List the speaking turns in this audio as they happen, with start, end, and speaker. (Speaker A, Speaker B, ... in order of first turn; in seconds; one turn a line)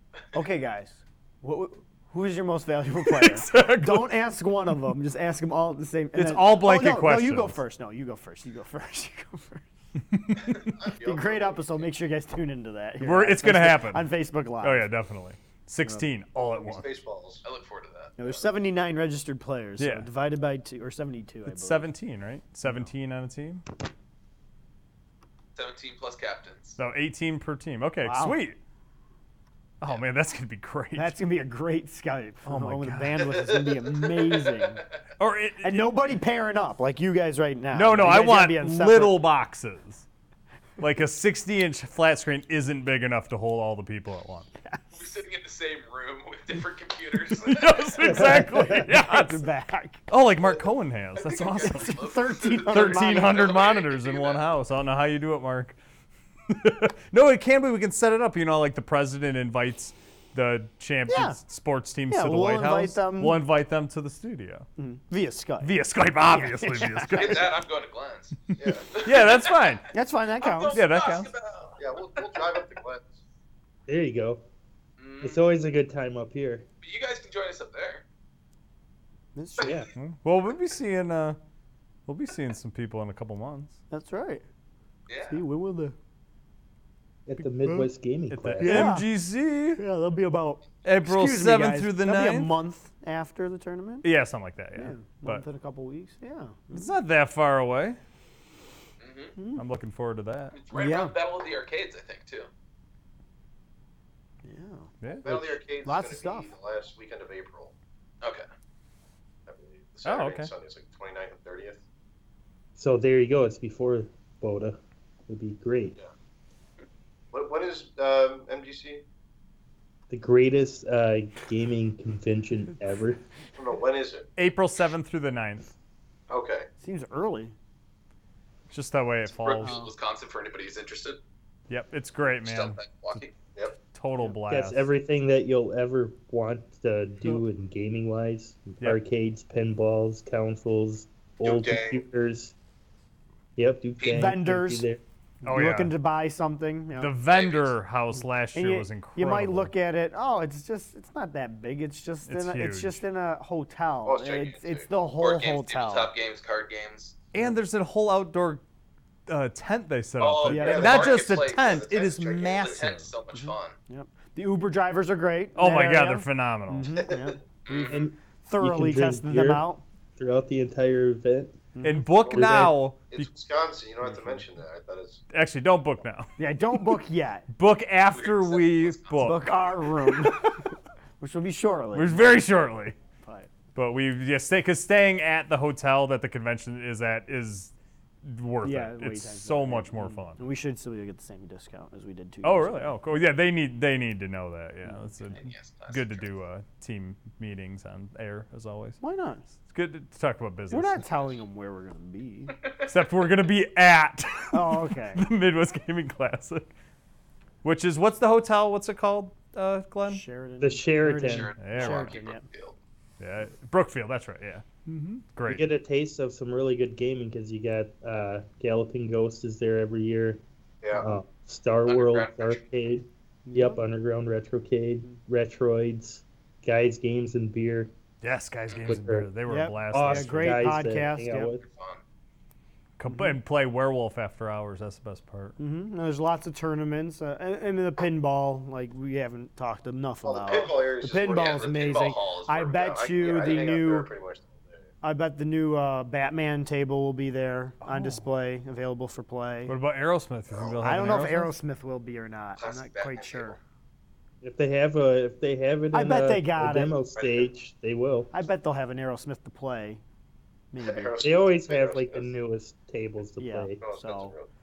Speaker A: 0.3-9.7
Speaker B: 3.0-4.1
Speaker B: 6.1-7.6
Speaker B: 10.2-10.7
Speaker C: 10.6-11.9
Speaker A: 11.0-14.9
Speaker B: 13.0-14.1
Speaker B: 14.6-16.8
Speaker C: 16.4-17.4
Speaker D: 17.4-18.1
Speaker A: 18.2-21.9
Speaker B: 19.8-20.1
Speaker B: 21.4-23.6
Speaker D: 25.5-26.8
Speaker B: 26.8-28.6
Speaker A: 28.0-28.4
Speaker B: 29.8-31.2
Speaker A: 30.9-34.8
Speaker B: 32.4-33.3
Speaker C: 33.4-33.8
Speaker B: 35.2-35.9
Speaker A: 35.6-39.2
Speaker B: 37.7-40.0
Speaker B: 40.8-44.5
Speaker D: 44.9-48.0
Speaker B: 47.3-49.4
Speaker E: 48.1-48.8
Speaker A: 48.1-50.0
Speaker B: 50.1-52.1
Speaker D: 51.1-54.4
Speaker A: 51.7-53.5
Speaker B: 52.7-55.8
Speaker B: 56.5-64.7
Speaker A: 61.1-61.4
Speaker A: 62.1-63.4
Speaker A: 64.8-67.4
Speaker B: 65.6-67.5
Speaker D: 67.1-69.8
Speaker C: 68.6-68.9
Speaker B: 68.9-69.9
Speaker A: 69.9-70.8
Speaker D: 70.4-72.5
Speaker B: 70.7-71.3
Speaker C: 71.8-73.1
Speaker E: 73.9-74.4
Speaker D: 75.0-75.4
Speaker E: 75.2-76.7
Speaker D: 76.8-78.0
Speaker A: 79.3-79.8
Speaker E: 79.6-79.9
Speaker B: 80.0-81.4
Speaker B: 82.1-83.8
Speaker A: 83.9-84.4
Speaker D: 85.1-85.4
Speaker A: 85.3-85.9
Speaker E: 87.3-88.9
Speaker B: 88.3-89.8
Speaker A: 88.6-89.0
Speaker A: 89.8-94.1
Speaker B: 90.8-92.5
Speaker B: 94.0-95.4
Speaker A: 94.8-97.0
Speaker B: 96.7-98.0
Speaker D: 99.0-99.3
Speaker A: 99.3-99.6
Speaker B: 99.5-100.6
Speaker D: 100.5-102.5
Speaker A: 100.7-101.2
Speaker A: 104.4-106.5
Speaker B: 105.0-105.5
Speaker C: 105.2-107.7
Speaker D: 108.2-108.5
Speaker C: 109.5-111.8
Speaker B: 110.0-110.5
Speaker E: 112.8-116.0
Speaker C: 117.3-119.0
Speaker E: 120.1-123.2
Speaker C: 123.5-124.3
Speaker B: 124.4-125.7
Speaker C: 126.3-126.7
Speaker A: 126.8-127.5
Speaker B: 128.7-129.8
Speaker D: 129.3-131.2
Speaker A: 129.6-129.9
Speaker B: 131.7-132.8
Speaker D: 132.4-133.3
Speaker B: 133.9-134.8
Speaker E: 134.5-142.5
Speaker C: 141.4-142.0
Speaker E: 143.6-145.0
Speaker D: 144.0-144.3
Speaker A: 144.1-144.8
Speaker A: 145.4-147.1
Speaker B: 145.4-145.9
Speaker B: 147.0-149.7
Speaker D: 147.3-147.8
Speaker A: 148.5-156.1
Speaker B: 152.2-153.0
Speaker C: 154.1-154.9
Speaker D: 155.2-157.2
Speaker B: 157.3-158.6
Speaker B: 159.3-163.1
Speaker D: 160.2-161.9
Speaker A: 160.4-161.1
Speaker C: 160.7-162.9
Speaker D: 162.6-163.8
Speaker A: 163.3-167.4
Speaker B: 165.5-167.0
Speaker C: 167.0-167.4
Speaker D: 167.7-168.1
Speaker E: 167.7-171.6
Speaker A: 168.4-169.8
Speaker A: 171.7-172.1
Speaker B: 171.8-173.3
Speaker C: 172.2-175.2
Speaker E: 172.3-172.8
Speaker B: 175.3-176.9
Speaker A: 176.4-177.4
Speaker B: 177.5-179.4
Speaker D: 178.1-179.4
Speaker A: 179.2-180.5
Speaker B: 180.0-180.4
Speaker A: 181.2-182.4
Speaker B: 181.9-182.9
Speaker A: 183.2-183.5
Speaker B: 183.7-190.4
Speaker A: 188.6-193.0
Speaker B: 192.4-199.0
Speaker A: 194.8-195.3
Speaker D: 195.3-196.3
Speaker A: 199.0-199.5
Speaker B: 199.7-201.0
Speaker A: 200.7-202.6
Speaker D: 202.6-202.9
Speaker B: 202.9-206.7
Speaker A: 204.5-205.2
Speaker B: 207.6-210.2
Speaker A: 210.1-212.4
Speaker E: 210.6-211.6
Speaker D: 211.2-212.8
Speaker B: 211.6-212.2
Speaker B: 213.2-215.6
Speaker E: 215.5-220.4
Speaker C: 220.8-221.1
Speaker E: 221.0-227.9
Speaker D: 221.8-222.6
Speaker A: 223.4-223.8
Speaker B: 228.2-230.7
Speaker D: 228.7-228.9
Speaker E: 228.8-229.3
Speaker A: 229.4-231.5
Speaker E: 229.9-231.6
Speaker D: 231.6-232.0
Speaker B: 233.0-235.6
Speaker A: 233.1-233.3
Speaker A: 235.6-244.1
Speaker C: 240.2-244.9
Speaker D: 241.3-242.7
Speaker A: 245.0-249.8
Speaker B: 247.8-248.3
Speaker B: 249.7-251.5
Speaker C: 250.5-250.9
Speaker A: 250.8-253.6
Speaker D: 252.6-253.5
Speaker E: 254.4-258.3
Speaker A: 255.9-256.9
Speaker C: 257.2-257.5
Speaker A: 258.3-260.0
Speaker A: 260.7-261.2
Speaker C: 260.8-262.3
Speaker E: 261.2-263.8
Speaker A: 263.4-264.3
Speaker C: 263.8-264.5